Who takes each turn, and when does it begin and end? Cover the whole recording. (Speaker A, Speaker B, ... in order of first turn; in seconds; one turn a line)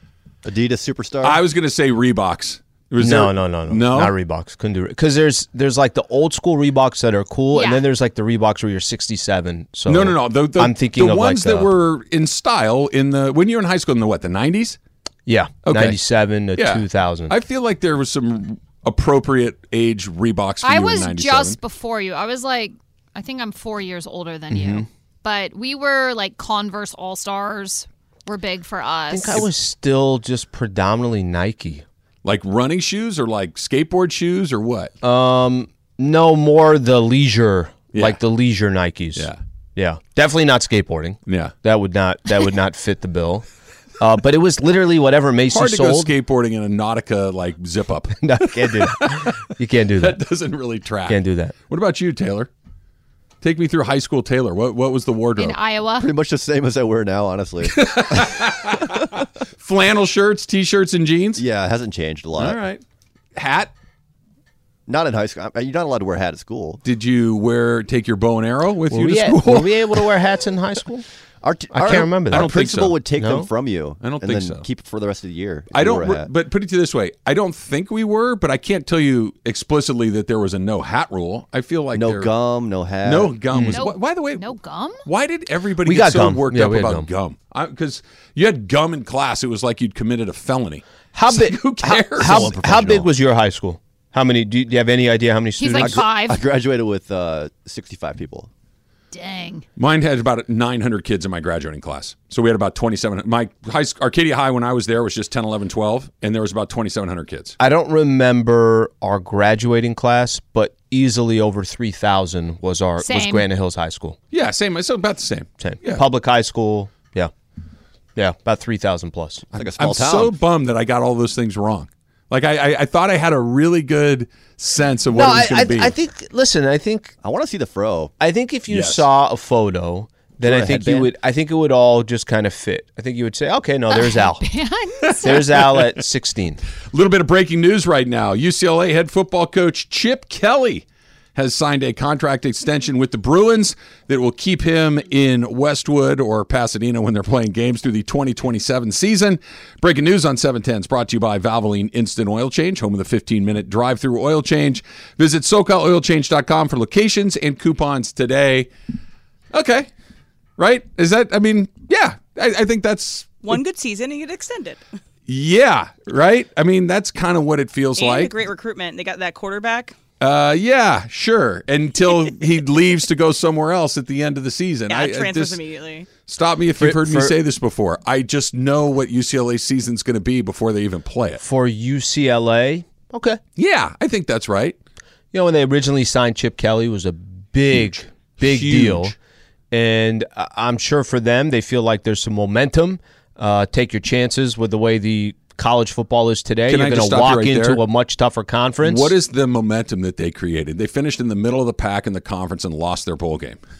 Speaker A: 0.4-1.4
Speaker B: 1.2-4.1
Speaker C: 3.0-11.7
Speaker D: 7.5-7.8
Speaker B: 9.9-14.8
Speaker C: 15.3-17.4
Speaker B: 15.7-16.0
Speaker B: 16.6-21.6
Speaker D: 20.6-29.4
Speaker C: 24.5-24.9
Speaker C: 29.1-31.8
Speaker B: 32.2-34.9
Speaker C: 35.0-43.4
Speaker B: 41.3-41.5
Speaker C: 44.0-46.1
Speaker B: 45.5-49.4
Speaker C: 48.2-50.2
Speaker B: 50.0-52.5
Speaker C: 51.1-51.5
Speaker B: 53.4-55.6
Speaker D: 55.4-56.1
Speaker A: 56.0-59.1
Speaker B: 57.6-61.4
Speaker A: 61.4-62.6
Speaker B: 62.4-62.8
Speaker B: 63.4-63.7
Speaker A: 64.9-66.8
Speaker B: 66.8-70.0
Speaker C: 68.9-71.0
Speaker A: 71.4-76.3
Speaker C: 71.7-73.5
Speaker B: 71.9-72.9
Speaker B: 74.0-74.6
Speaker B: 75.7-82.3
Speaker A: 81.9-83.4
Speaker B: 83.0-84.5
Speaker C: 83.5-83.8
Speaker D: 83.7-85.0
Speaker B: 85.0-92.6
Speaker C: 85.8-87.1
Speaker C: 91.1-96.1
Speaker A: 92.1-93.1
Speaker D: 95.6-96.4
Speaker A: 95.8-98.5
Speaker D: 99.1-99.6
Speaker B: 99.8-107.6
Speaker C: 107.6-114.2
Speaker D: 113.0-113.5
Speaker B: 114.3-116.0
Speaker C: 115.6-117.3
Speaker C: 118.2-119.4
Speaker A: 119.5-120.4
Speaker B: 119.6-125.9
Speaker C: 125.1-127.1
Speaker A: 127.2-128.1
Speaker C: 128.2-134.4
Speaker B: 128.7-129.1
Speaker A: 130.4-131.1
Speaker D: 133.9-135.4
Speaker B: 135.1-135.8
Speaker C: 135.2-136.6
Speaker B: 136.9-158.7
Speaker B: 159.5-159.9
Speaker B: 160.6-163.6
Speaker E: 163.4-164.8
Speaker B: 165.3-168.3
Speaker E: 168.0-169.9
Speaker B: 170.2-175.6
Speaker E: 174.9-176.1
Speaker B: 176.2-181.4
Speaker C: 176.8-177.3
Speaker C: 181.4-183.4
Speaker B: 183.6-184.8
Speaker C: 185.3-189.1
Speaker B: 187.7-189.1
Speaker C: 189.7-199.1
Speaker B: 196.7-197.8
Speaker B: 198.8-203.6